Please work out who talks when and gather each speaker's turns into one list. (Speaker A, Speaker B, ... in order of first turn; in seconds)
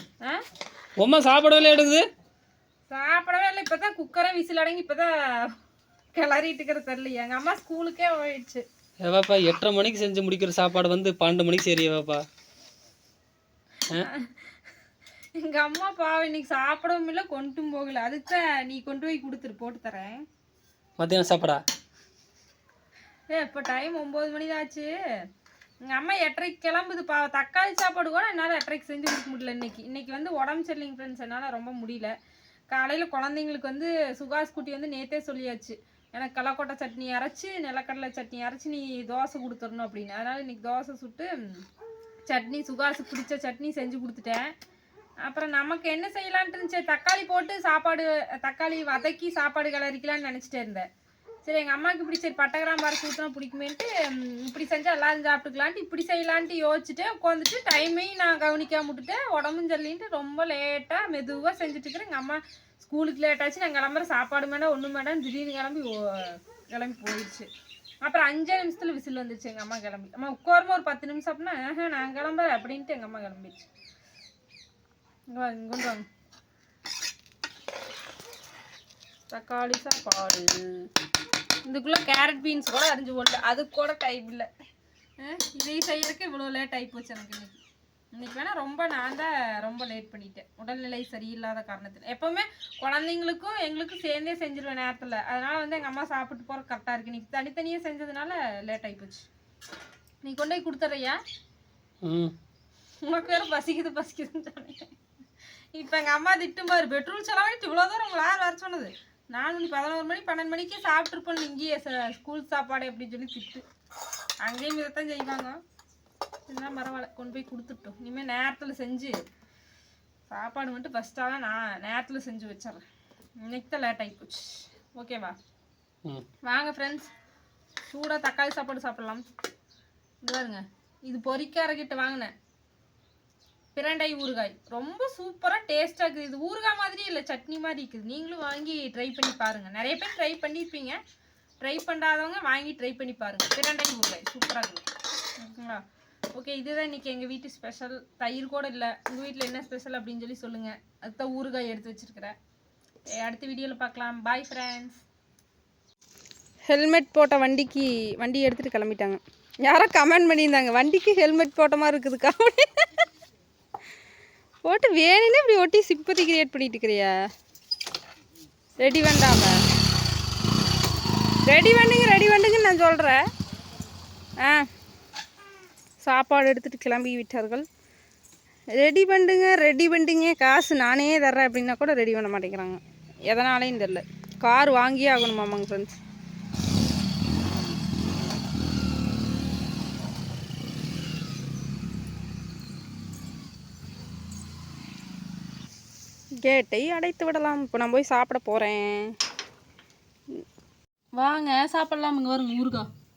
Speaker A: 1.0-2.0, 9.0-12.2, 21.0-21.6, 102.0-102.3
Speaker B: 2.9-5.1, 6.2-8.6, 14.1-14.5, 15.4-20.2, 23.3-24.9, 25.9-32.1, 32.7-41.3, 42.3-44.5, 45.2-50.9, 51.5-67.5, 68.0-73.7, 75.3-76.1, 79.3-80.9, 81.7-84.5, 85.2-87.6, 88.2-99.3, 100.2-101.2, 103.0-104.9, 105.7-113.7, 114.4-115.6, 116.5-119.2, 120.3-122.8, 123.5-125.3, 126.5-127.1, 127.9-129.2, 130.2-132.3, 133.8-141.0, 141.6-144.9, 145.4-145.8, 146.3-152.4, 153.2-155.0, 156.7-163.1, 164.7-167.1, 168.8-169.6, 171.5-173.2, 174.4-174.7, 176.0-177.7, 178.8-186.0, 196.4-199.2, 201.2-202.9